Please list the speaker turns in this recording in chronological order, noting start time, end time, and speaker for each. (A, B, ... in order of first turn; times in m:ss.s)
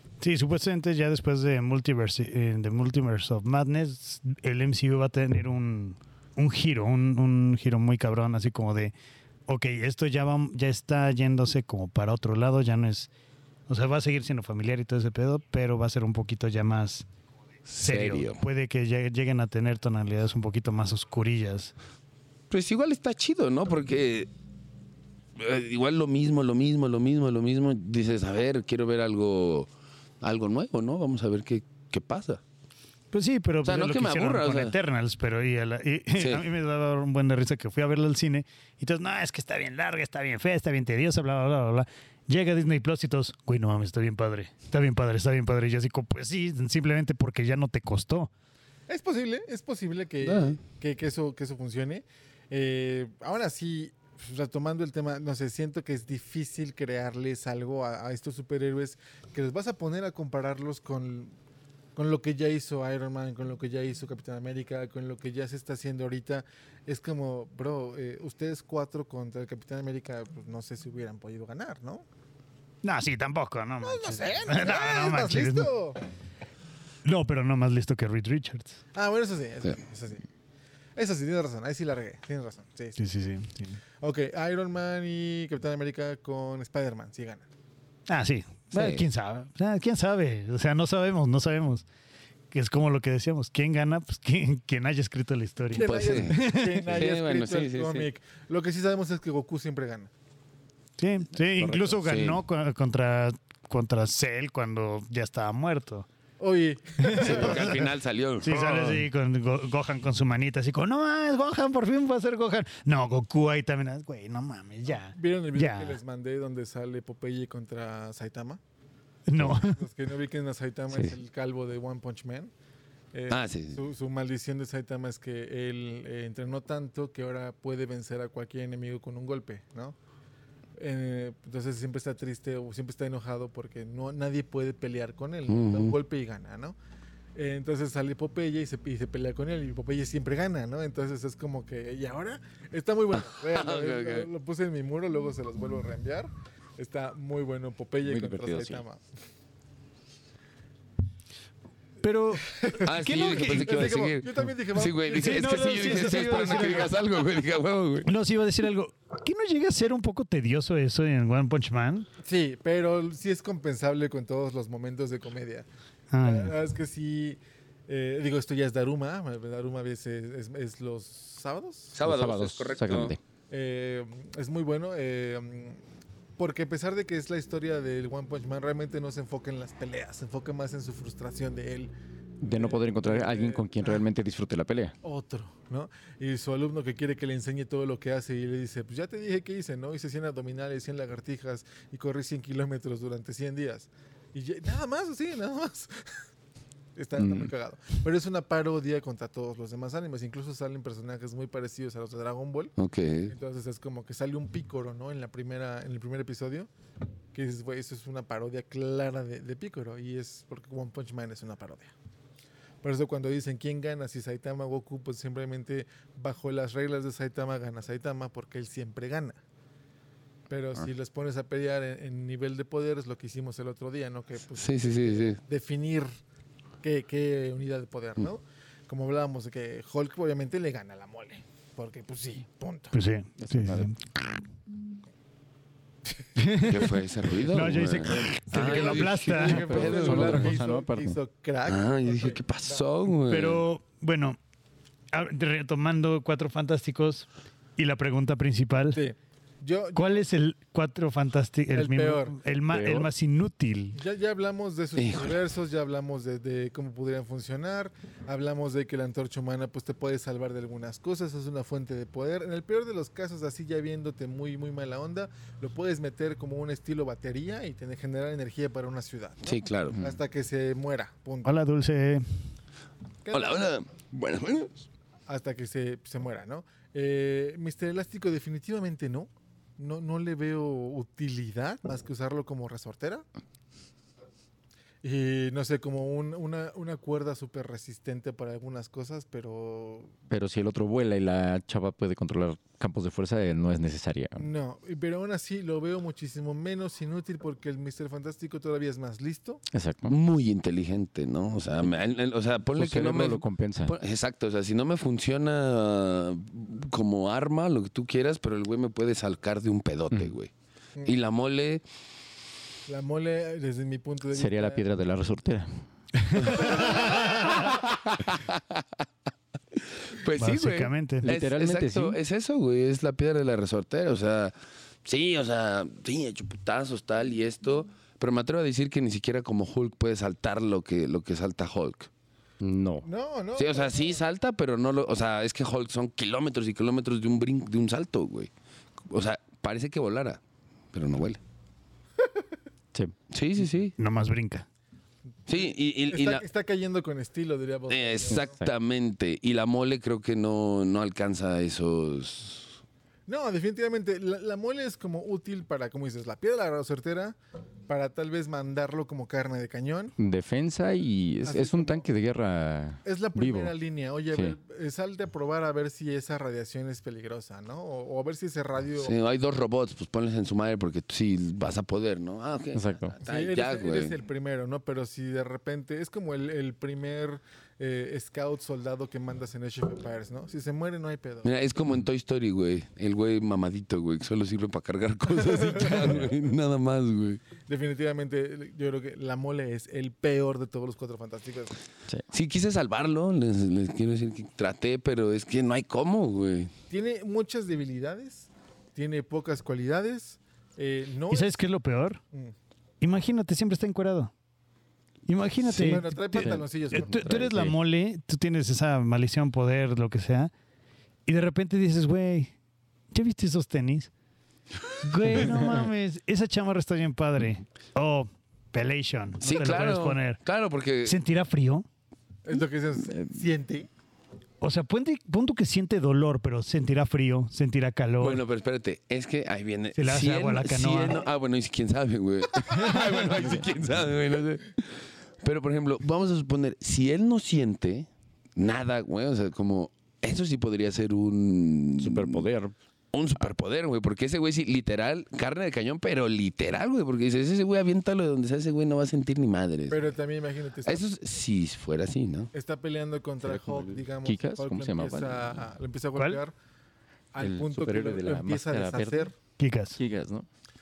0:00.2-0:08.9 A
0:09.5-0:13.1 A
0:13.7-0:17.0 A
0:17.6-0:21.7 A
0:17.8-0:18.4 B
0:22.5-0:24.3 B
0:25.4-0:29.7 B
0:30.2-0:32.4 B
0:33.1-0:48.3 A
0:33.6-0:34.7 B
0:36.2-0:36.4 B
0:48.9-1:01.3 C
0:50.2-0:50.6 B
1:02.0-1:12.0 C
1:12.8-1:15.7 A
1:13.8-1:16.0 C
1:17.0-1:18.8 A
1:18.9-1:20.2 C
1:21.0-1:23.0 C
1:23.0-1:23.8 A
1:24.0-1:27.4 C
1:28.1-1:31.8 A
1:28.7-1:29.0 B
1:32.5-1:36.9 A
1:35.7-1:40.1 C
1:35.8-1:38.1 B
1:41.0-1:46.0 A
1:41.6-1:41.8 D
1:42.0-1:42.4 B
1:46.4-1:47.9 C
1:47.0-1:47.7 A
1:47.2-1:49.0 B
1:48.4-1:56.0 A
1:55.0-1:58.6 C
1:59.3-1:59.8 A
1:59.4-2:02.5 C
2:03.1-2:10.0 C
2:03.3-2:03.8 B
2:10.8-2:16.8 C
2:15.5-2:15.9 B
2:17.3-2:29.0 C
2:23.2-2:24.3 B
2:28.0-2:28.8 D
2:32.0-2:33.9 A
2:32.5-2:37.0 C
2:32.8-2:38.1 B
2:35.1-2:36.9 A
2:38.0-2:42.1 A
2:42.2-2:45.7 C
2:46.1-2:46.5 A
2:46.2-2:52.0 C
2:51.9-2:53.2 B
2:52.0-2:53.2 D
2:53.5-2:55.8 C
2:56.4-3:04.0 C
3:02.4-3:04.9 D
3:05.0-3:16.2 C
3:17.0-3:22.7 C
3:17.2-3:17.5 D
3:22.8-3:23.3 B
3:23.3-3:26.7 C
3:27.3-3:31.9 C
3:32.8-3:39.4 C
3:40.5-3:46.1 C
3:44.6-3:45.4 B
3:46.8-3:52.9 C
3:52.9-3:54.0 A
3:53.4-3:53.9 D
3:56.4-3:59.7 A
3:56.6-4:00.6 B
3:58.5-4:02.8 C
3:59.6-4:01.2 D
4:01.6-4:03.6 B
4:03.3-4:04.4 A
4:05.1-4:09.0 A
4:08.9-4:10.2 C
4:09.9-4:14.0 A
4:11.7-4:12.4 C
4:12.7-4:13.1 D
4:13.9-4:31.5 C
4:15.0-4:15.3 B
4:29.4-4:30.2 B
4:31.4-4:32.2 A
4:33.2-4:33.7 C
4:33.3-4:34.8 B
4:35.3-4:43.2 C
4:45.0-4:50.1 C
4:50.3-4:54.4 D
4:54.4-4:59.6 C
4:59.7-5:00.1 D
5:00.0-5:10.5 B
5:02.7-5:03.9 D
5:11.0-5:11.8 B
5:12.9-5:14.8 C
5:14.3-5:15.8 D
5:16.2-5:17.6 A
5:16.4-5:18.8 B
5:16.5-5:17.1 C
5:19.8-5:32.1 B
5:20.4-5:21.3 A
5:21.2-5:22.2 D
5:32.6-5:33.0 D
5:33.0-5:34.2 C
5:33.6-5:38.5 B
5:39.1-5:40.4 B
5:40.9-5:41.4 B
5:43.3-5:43.9 B
5:44.0-5:44.6 A
5:45.5-5:46.4 B
5:45.5-5:48.5 C
5:47.9-5:52.8 B
5:48.3-5:48.7 D
5:53.3-5:57.4 C
5:57.9-6:00.1 C
6:00.2-6:03.7 D
6:01.4-6:02.0 C
6:03.0-6:09.2 C
6:09.0-6:14.1 B
6:12.7-6:13.2 D
6:13.2-6:21.5 C
6:21.4-6:27.4 B
6:25.3-6:26.2 C
6:27.7-6:31.8 C
6:32.3-6:36.7 B
6:36.9-6:41.6 C
6:41.3-6:42.2 A
6:43.0-6:44.3 A
6:45.3-6:50.5 A
6:45.6-6:47.2 C
6:45.7-6:47.7 D
6:51.3-6:52.5 A
6:53.1-6:54.1 A
6:55.0-7:00.4 A
6:59.4-7:01.2 B
7:01.0-7:01.8 A
7:02.4-7:03.9 C
7:04.6-7:08.4 A
7:08.2-7:22.4 B
7:09.9-7:11.2 A
7:13.3-7:13.6 D
7:22.0-7:22.7 D
7:23.1-7:30.1 B
7:29.9-7:31.1 C
7:30.8-7:32.5 B
7:32.5-7:36.5 C
7:33.4-7:35.6 D
7:37.3-7:39.3 C
7:37.4-7:39.3 D
7:39.6-7:40.0 A
7:40.0-7:40.5 D